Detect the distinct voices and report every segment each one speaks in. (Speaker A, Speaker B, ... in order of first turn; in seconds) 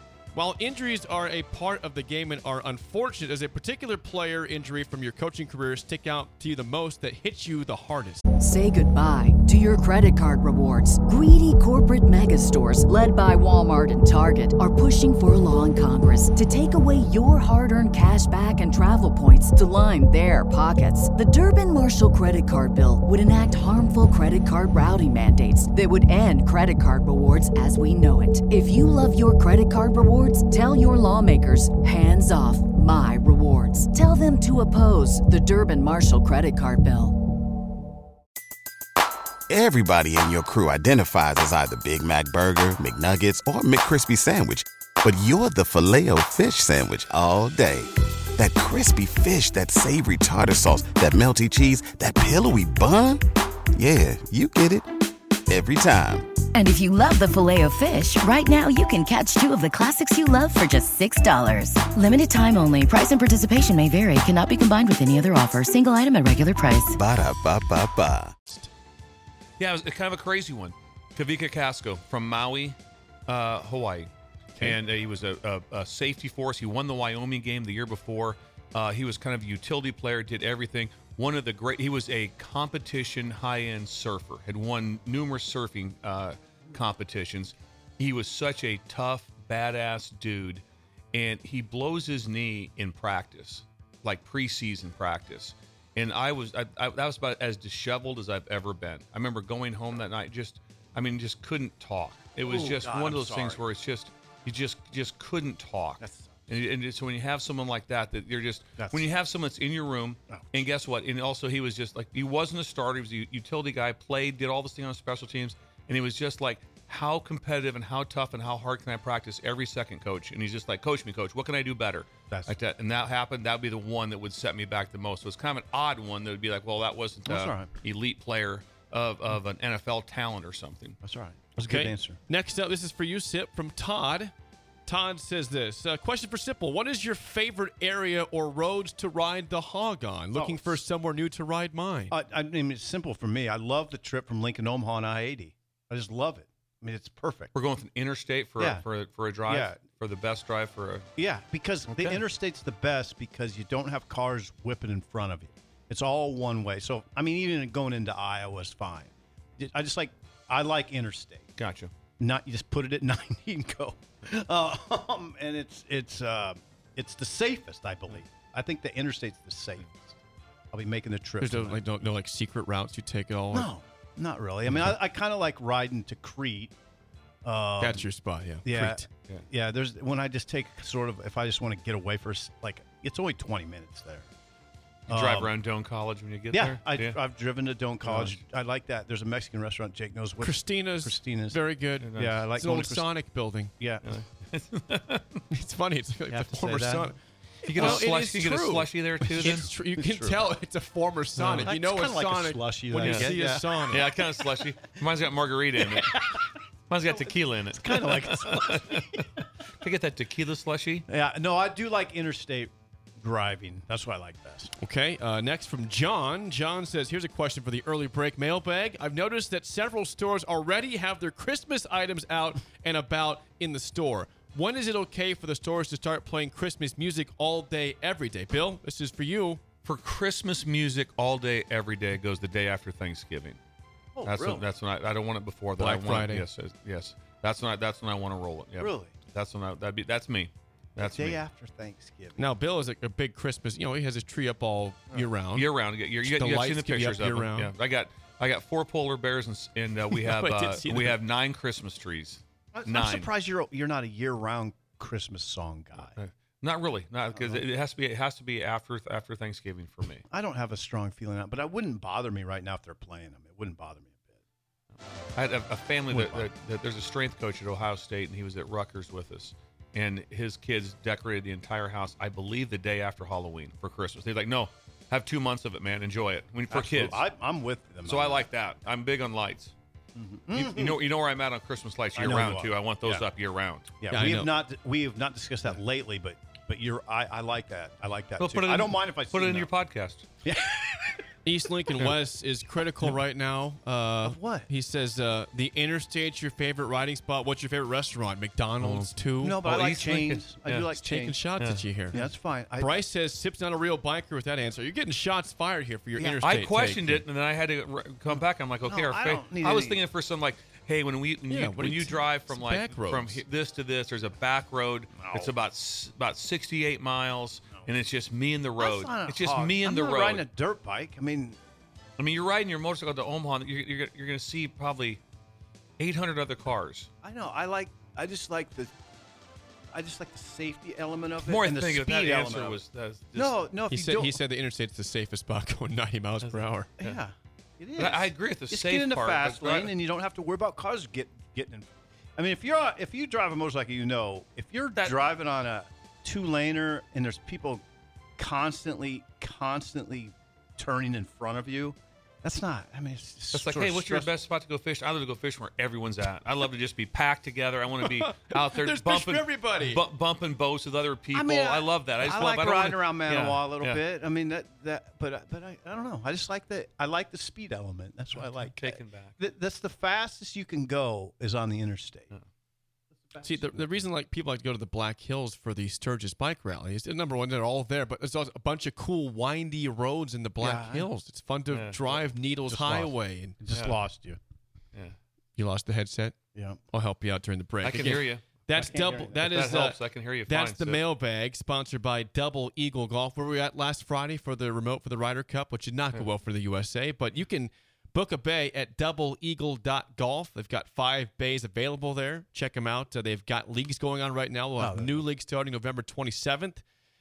Speaker A: 0.3-8.2, 131.6-134.3, 134.9-142.2, 171.4-173.7, 177.8-179.1, 190.4-193.7, 195.5-197.2, 197.8-204.1, 214.8-229.6, 235.8-236.5, 242.4-245.7, 246.2-247.7, 250.1-251.2, 284.1-284.5, 291.4-299.6, 300.9-302.2, 302.8-307.2, 311.5-313.4, 333.9-336.9, 358.0-360.0, 373.4-383.9, 385.6-386.4, 386.9-406.8
Speaker B: 8.4-37.2
Speaker C: 39.5-53.2, 53.8-54.9, 55.5-56.3, 66.9-68.3
Speaker D: 56.5-67.0
Speaker E: 69.6-131.0, 147.5-151.1, 151.9-152.2, 161.6-161.9, 185.1-187.2, 188.1-188.4, 192.0-192.5, 194.0-195.4, 197.7-199.7, 203.0-203.4, 203.9-209.2, 209.8-211.1, 229.8-233.6, 234.2-241.4, 245.5-253.3, 256.0-260.2, 265.4-277.2, 278.1-279.7, 280.5-283.9, 288.4-290.3, 298.8-300.9, 301.6-302.2, 306.4-320.4, 322.2-325.2, 326.0-327.1, 331.4-333.7, 336.4-337.2, 338.0-339.9, 353.5-364.0, 368.4-369.3, 381.7-382.2, 387.8-388.6, 389.4-391.1
Speaker F: 102.4-103.6, 106.0-106.3, 108.8-109.1, 110.3-110.6, 122.3-122.5, 127.3-127.7, 131.0-132.2, 140.3-140.8, 142.1-147.5, 148.6-148.8, 149.4-149.8, 151.2-161.5, 162.2-170.0, 170.7-171.8, 173.5-176.7, 177.4-178.1, 178.6-184.3, 185.1-185.5, 186.5-191.6, 192.2-193.1, 193.8-194.1, 196.3-197.1, 197.8-198.1, 199.3-200.4, 201.4-204.7, 205.8-206.4, 207.0-209.2, 211.1-214.7, 234.2-234.7, 238.8-239.2, 241.0-242.4, 252.7-256.2, 257.4-257.7, 260.3-264.2, 266.1-266.5, 276.7-278.5, 280.1-281.1, 282.1-283.2, 284.0-289.7, 290.4-291.1, 294.2-294.7, 299.4-301.4, 302.1-303.0, 306.2-306.4, 308.3-310.0, 315.1-315.6, 318.8-321.6, 327.2-328.9, 329.9-332.8, 333.4-334.4, 337.0-347.8, 348.4-354.3, 361.3-372.3, 373.2-373.8, 380.6-381.1, 382.7-384.4, 386.5-386.8, 388.7-389.4, 404.8-405.2